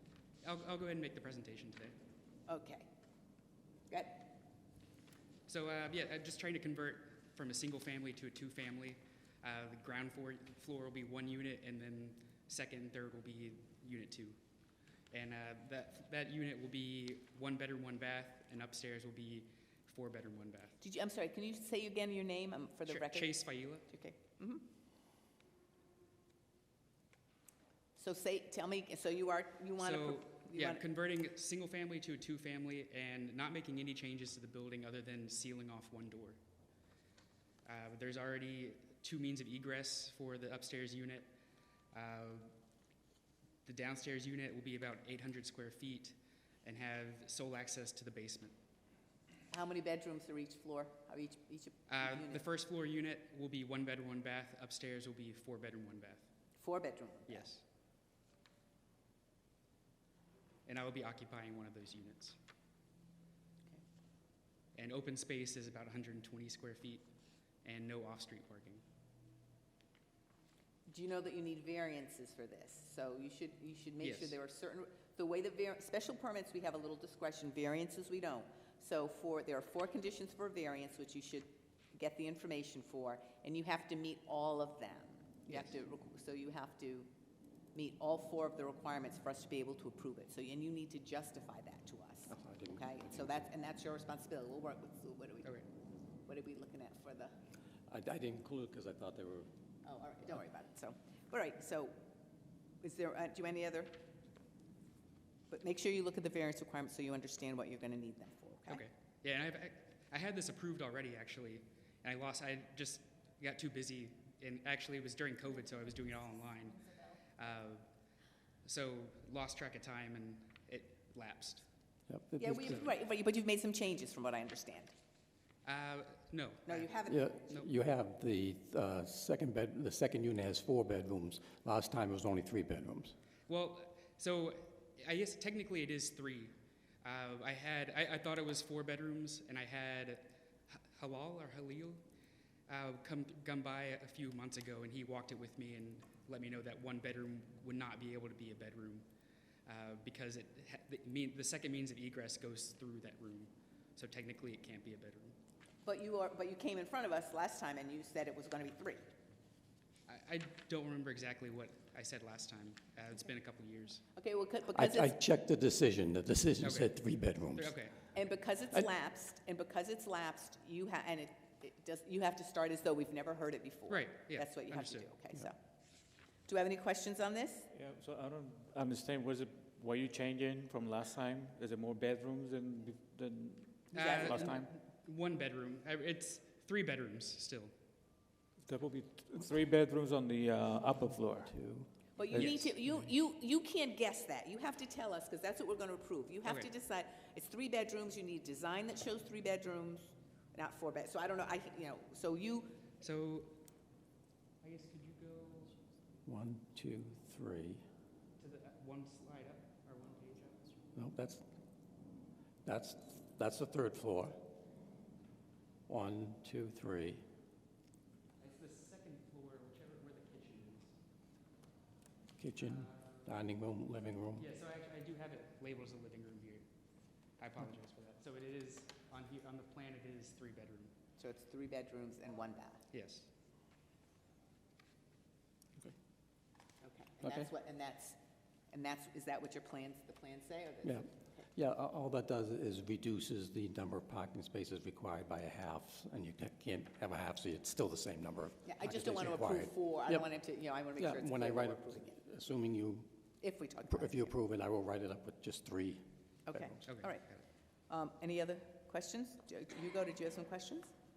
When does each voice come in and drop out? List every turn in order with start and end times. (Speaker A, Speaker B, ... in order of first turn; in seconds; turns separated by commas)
Speaker A: 0.4-1.9, Speaker B: 2.5-2.9, Speaker B: 3.9-4.3, Speaker A: 5.5-14.4, Speaker A: 15.1-20.8, Speaker B: 20.8-24.6, Speaker A: 22.9-23.9, Speaker B: 27.9-30.8, Speaker A: 29.8-36.4, Speaker A: 37.6-41.3, Speaker A: 41.9-42.5, Speaker A: 43.6-48.5, Speaker B: 49.5-52.4, Speaker A: 51.9-56.2, Speaker B: 56.6-57.5, Speaker A: 57.3-57.6, Speaker A: 60.6-62.4, Speaker A: 64.8-67.1, Speaker A: 67.6-68.8, Speaker B: 70.9-87.1, Speaker A: 74.0-74.4, Speaker B: 87.7-95.5, Speaker C: 92.3-92.9, Speaker B: 96.2-97.3, Speaker C: 97.9-99.5, Speaker B: 99.8-102.0, Speaker B: 102.8-104.0, Speaker B: 105.5-108.8, Speaker A: 108.7-117.8, Speaker A: 118.6-121.7, Speaker C: 122.1-122.9, Speaker B: 122.4-124.9, Speaker A: 125.6-126.9, Speaker B: 126.7-127.3, Speaker C: 127.0-133.1, Speaker A: 133.5-142.0, Speaker A: 142.7-149.1, Speaker A: 149.7-155.3, Speaker B: 155.8-159.1, Speaker A: 160.1-164.0, Speaker B: 164.2-165.2, Speaker C: 164.7-167.7, Speaker A: 166.6-166.9, Speaker A: 167.5-167.9, Speaker B: 168.1-175.6, Speaker A: 173.9-175.1, Speaker B: 176.4-177.7, Speaker D: 177.7-184.7, Speaker A: 183.9-187.7, Speaker B: 183.9-184.6, Speaker D: 188.6-191.5, Speaker C: 191.4-193.0, Speaker B: 192.2-202.8, Speaker A: 192.3-192.7, Speaker A: 196.4-196.7, Speaker A: 203.0-203.5, Speaker A: 204.6-205.8, Speaker C: 206.2-207.8, Speaker A: 208.4-210.8, Speaker C: 210.9-211.4, Speaker C: 212.6-214.5, Speaker C: 215.9-217.2, Speaker A: 218.4-220.9, Speaker C: 222.4-224.4, Speaker A: 222.6-223.4, Speaker A: 224.4-226.6, Speaker A: 227.4-230.9, Speaker B: 231.2-232.8, Speaker A: 232.9-233.3, Speaker B: 236.8-238.2, Speaker C: 237.2-237.5, Speaker B: 238.7-241.5, Speaker C: 240.8-250.3, Speaker B: 248.6-252.2, Speaker C: 250.9-253.1, Speaker B: 253.4-254.3, Speaker C: 253.9-256.8, Speaker B: 256.5-257.3, Speaker A: 256.9-257.4, Speaker B: 257.9-260.9